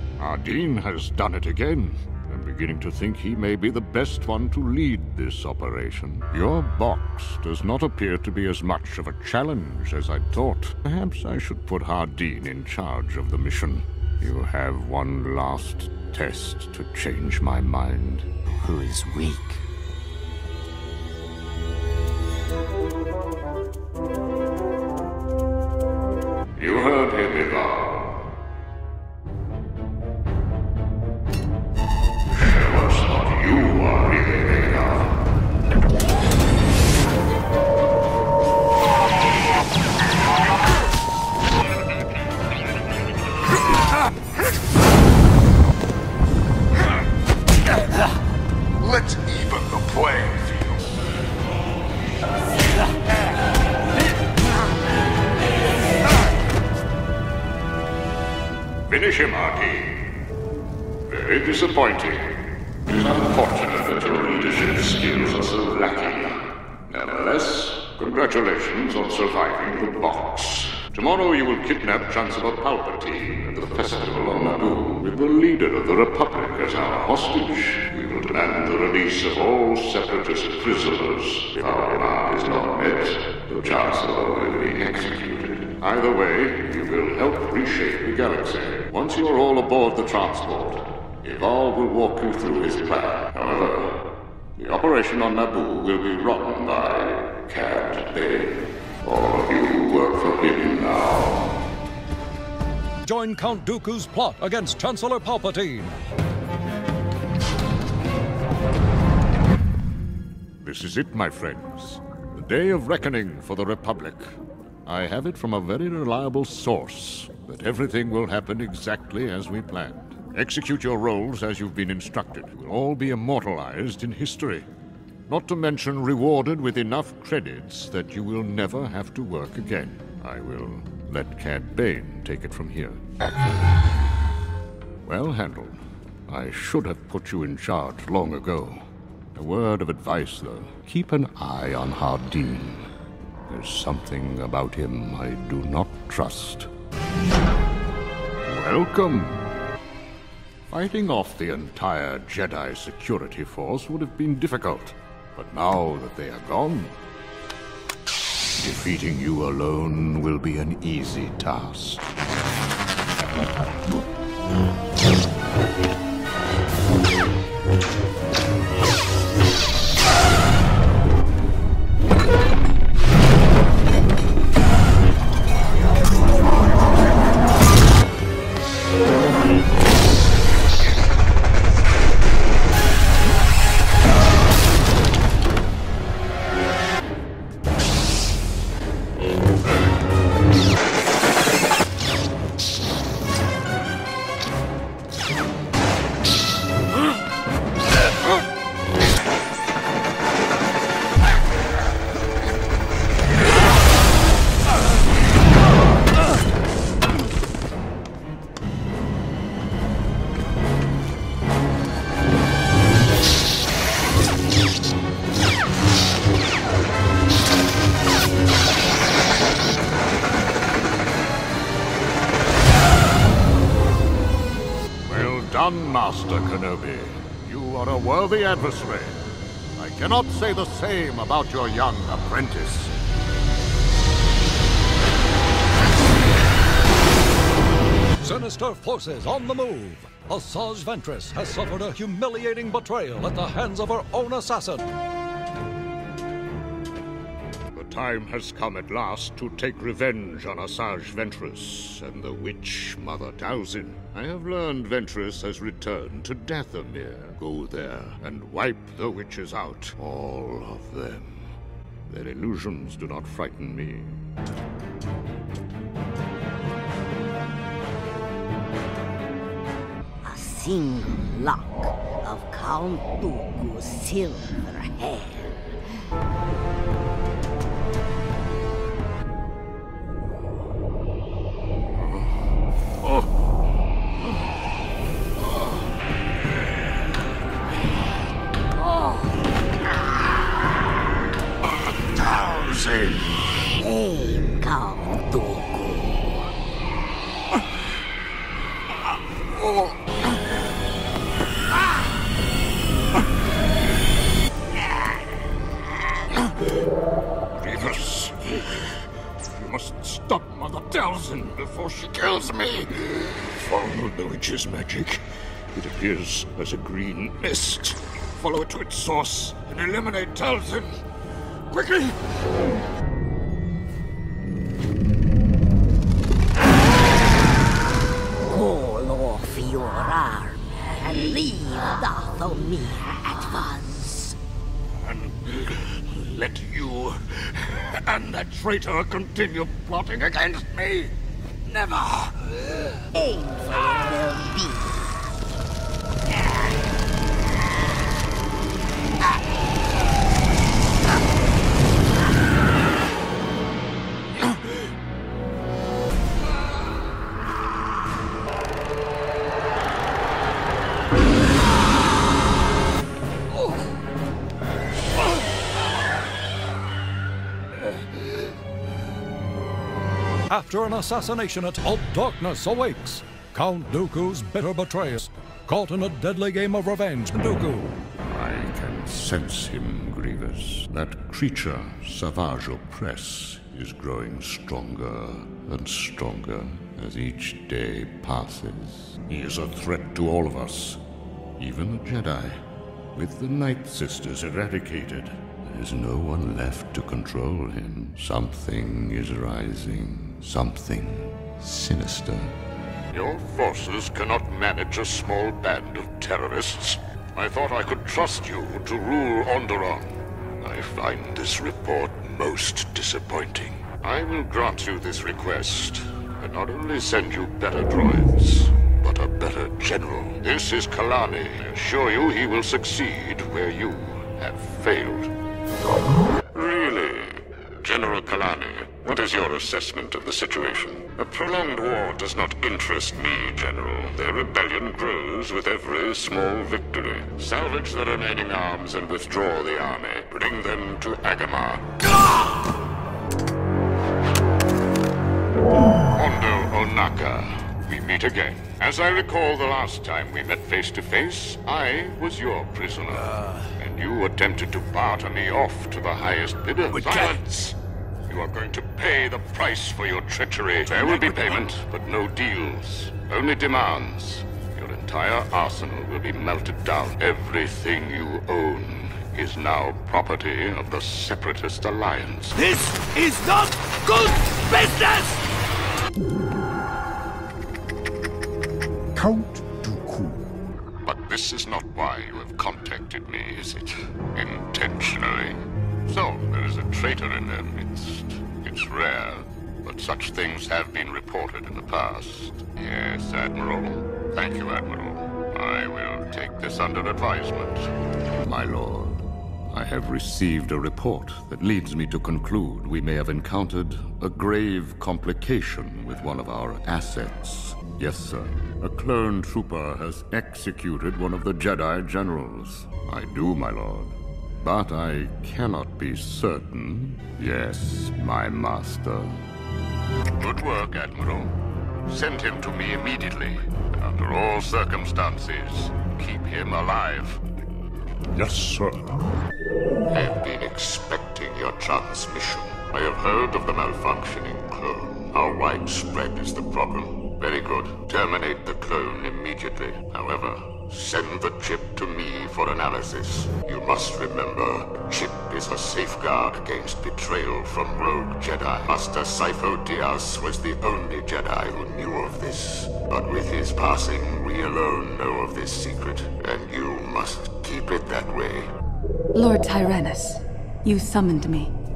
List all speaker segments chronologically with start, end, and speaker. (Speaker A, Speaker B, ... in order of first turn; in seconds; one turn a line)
Speaker A: 0.2-18.3
Speaker B: 18.5-19.6
Speaker A: 26.6-27.1
Speaker C: 26.6-28.0
Speaker C: 32.4-35.0
Speaker A: 33.6-34.9
Speaker A: 49.2-50.5
Speaker A: 58.9-60.0
Speaker A: 61.1-93.9
Speaker A: 94.6-98.5
Speaker C: 97.5-98.4
Speaker A: 99.0-101.6
Speaker D: 103.0-106.0
Speaker A: 110.6-114.3
Speaker A: 114.9-124.7
Speaker A: 125.3-133.0
Speaker A: 135.1-142.9
Speaker A: 143.5-146.7
Speaker A: 148.5-149.5
Speaker A: 150.7-157.0
Speaker A: 158.6-162.1
Speaker A: 225.1-229.2
Speaker A: 229.8-232.9
Speaker D: 238.2-244.9
Speaker A: 247.7-261.5
Speaker A: 262.1-264.2
Speaker B: 270.2-275.5
Speaker A: 292.2-293.2
Speaker B: 293.8-296.4
Speaker A: 307.6-308.8
Speaker A: 309.5-315.2
Speaker A: 315.7-321.0
Speaker A: 321.7-322.1
Speaker B: 328.5-334.4
Speaker A: 335.1-341.1
Speaker A: 341.7-342.3
Speaker B: 343.1-345.0
Speaker D: 370.5-377.9
Speaker A: 378.2-391.0
Speaker A: 391.6-392.6
Speaker A: 393.1-402.5
Speaker C: 403.1-425.3
Speaker C: 426.5-441.9
Speaker C: 446.1-457.7
Speaker E: 453.1-453.7
Speaker E: 456.9-457.5
Speaker C: 458.3-472.6
Speaker A: 461.3-461.6
Speaker E: 472.5-475.4
Speaker A: 479.4-480.2
Speaker C: 481.0-497.9
Speaker A: 498.4-519.4
Speaker C: 520.4-521.5
Speaker C: 522.1-527.4
Speaker A: 528.4-529.3
Speaker C: 530.1-558.7
Speaker F: 559.3-561.7